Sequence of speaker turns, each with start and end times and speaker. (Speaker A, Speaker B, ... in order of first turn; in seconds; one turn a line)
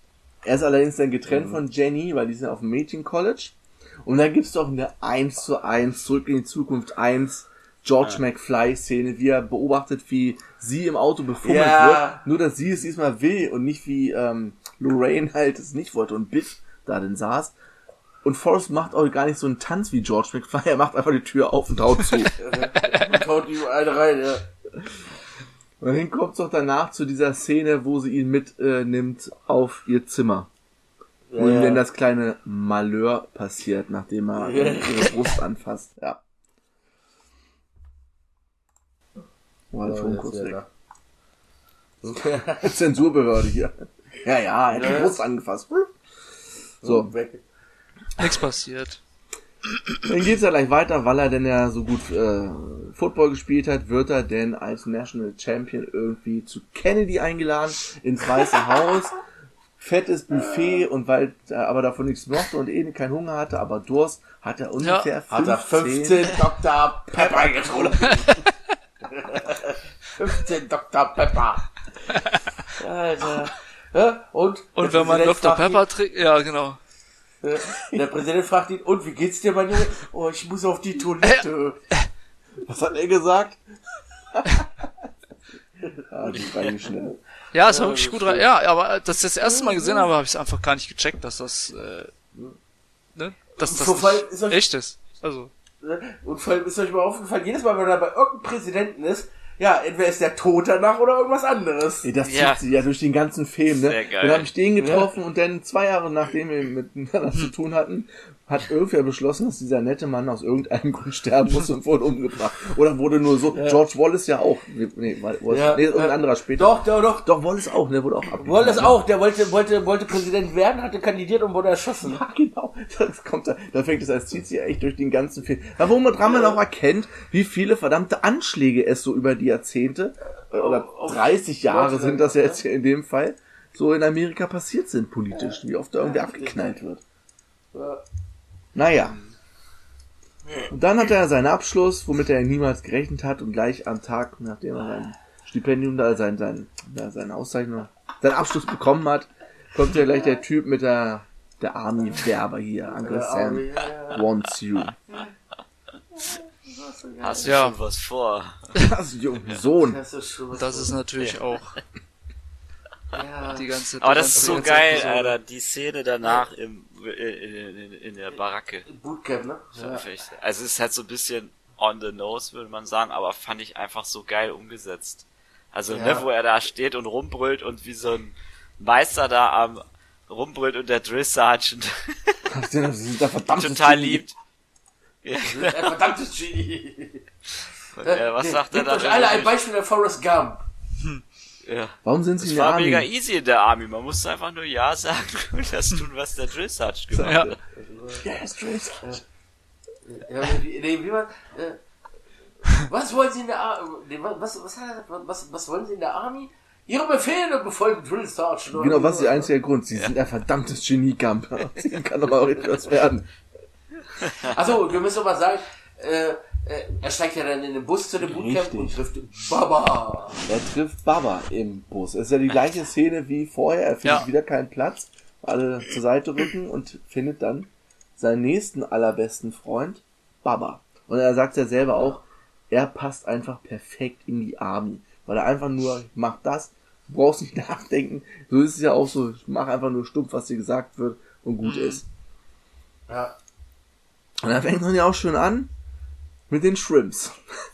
Speaker A: 0.4-17.5
Speaker B: 11.4-12.2
Speaker A: 18.2-22.3
Speaker B: 22.4-24.5
Speaker A: 25.8-30.5
Speaker B: 31.3-31.8
Speaker A: 31.4-36.2
Speaker B: 34.3-35.4
Speaker A: 39.7-40.6
Speaker B: 39.8-40.6
Speaker B: 42.0-42.6
Speaker A: 42.6-45.9
Speaker B: 44.7-45.2
Speaker B: 46.8-47.4
Speaker A: 46.8-47.1
Speaker C: 48.2-49.0
Speaker A: 50.0-59.2
Speaker A: 59.8-66.3
Speaker C: 64.8-65.1
Speaker B: 65.3-68.3
Speaker A: 67.1-67.9
Speaker C: 68.0-68.5
Speaker B: 69.0-71.7
Speaker B: 72.8-75.8
Speaker C: 74.8-76.8
Speaker B: 77.4-81.8
Speaker A: 82.6-83.6
Speaker A: 84.3-84.7
Speaker A: 86.1-87.2
Speaker D: 86.3-86.8
Speaker C: 87.5-92.1
Speaker B: 87.5-88.4
Speaker B: 89.4-90.1
Speaker C: 93.1-95.5
Speaker B: 93.6-94.7
Speaker B: 95.8-102.1
Speaker A: 102.0-119.0
Speaker D: 102.2-102.6
Speaker D: 103.8-104.5
Speaker B: 104.8-105.1
Speaker B: 113.5-113.8
Speaker B: 115.5-117.2
Speaker B: 118.4-122.2
Speaker A: 122.1-137.0
Speaker B: 130.5-132.6
Speaker B: 136.0-136.8
Speaker B: 137.7-138.0
Speaker A: 138.7-139.2
Speaker A: 140.7-154.9
Speaker B: 153.0-154.2
Speaker B: 156.2-157.7
Speaker D: 157.2-158.7
Speaker C: 157.4-157.8
Speaker A: 158.8-160.0
Speaker B: 159.8-161.0
Speaker C: 160.5-161.8
Speaker B: 163.1-163.7
Speaker C: 163.5-165.3
Speaker D: 164.0-168.9
Speaker B: 164.3-164.9
Speaker B: 168.9-170.1
Speaker D: 169.7-182.4
Speaker B: 175.9-176.2
Speaker A: 182.5-184.2
Speaker D: 183.5-184.3
Speaker D: 185.2-186.0
Speaker B: 185.5-187.2
Speaker D: 187.9-189.6
Speaker B: 188.0-190.6
Speaker D: 191.6-197.6
Speaker A: 192.0-193.1
Speaker A: 197.1-197.5
Speaker C: 197.2-197.5
Speaker B: 197.8-198.2
Speaker A: 198.1-199.2
Speaker B: 200.1-201.8
Speaker B: 202.6-209.5
Speaker A: 208.7-213.3
Speaker B: 214.4-220.4
Speaker A: 218.2-219.0
Speaker A: 220.4-242.0
Speaker B: 243.1-243.3
Speaker A: 244.4-245.7
Speaker A: 246.5-247.3